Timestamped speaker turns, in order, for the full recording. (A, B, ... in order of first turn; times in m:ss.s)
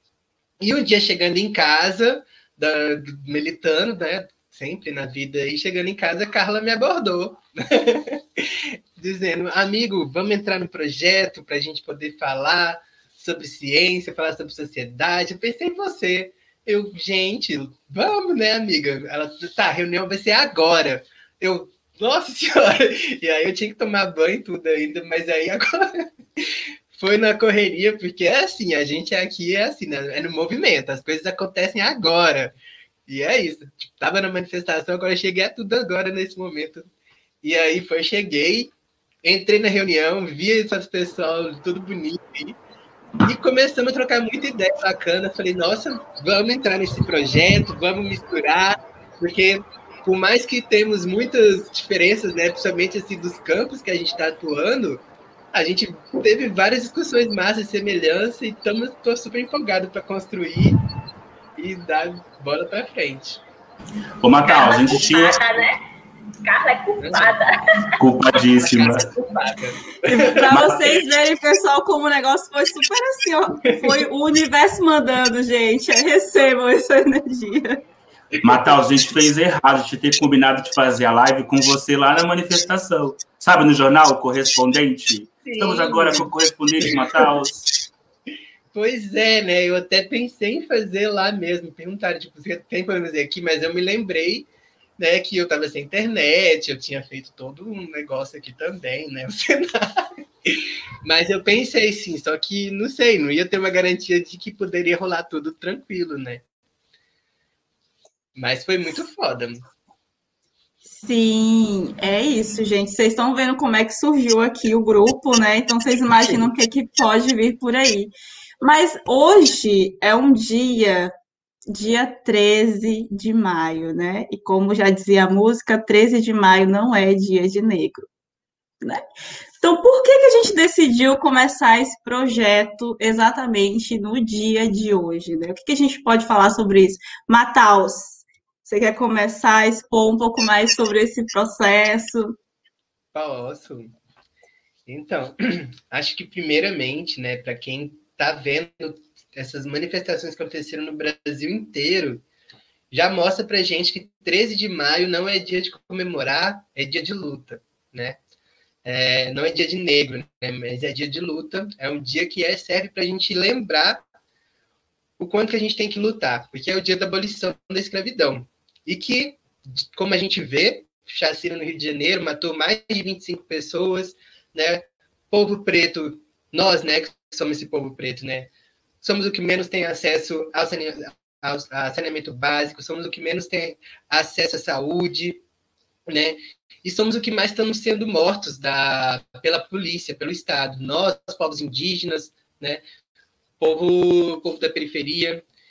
0:00.6-0:32.5 A
0:33.1-0:36.9 A
0:37.4-0:38.7 A
0:39.2-0:42.6 A
0:43.2-0:55.0 A
0:55.5-1:00.8 A
1:01.6-1:03.4 A
1:04.2-1:05.4 B
1:04.4-1:05.8 C
1:06.4-1:07.5 C
1:07.0-1:07.4 A
1:08.0-1:09.1 B
1:08.3-1:10.9 A
1:10.1-1:17.8 D
1:10.4-1:10.8 B
1:13.7-1:14.0 A
1:18.4-1:18.8 A
1:18.4-1:27.7 B
1:25.4-1:26.3 A
1:26.9-1:27.2 A
1:28.7-1:46.4 A
1:48.4-1:49.6 A
1:50.9-2:01.1 D
2:01.7-2:08.0 D
2:09.6-2:22.3 D
2:23.1-2:24.0 A
2:24.9-2:32.2 A
2:32.9-2:38.2 A
2:38.8-2:44.0 A
2:45.2-2:58.5 A
2:59.0-3:05.4 A
3:06.1-3:12.8 A
3:13.6-3:15.4 A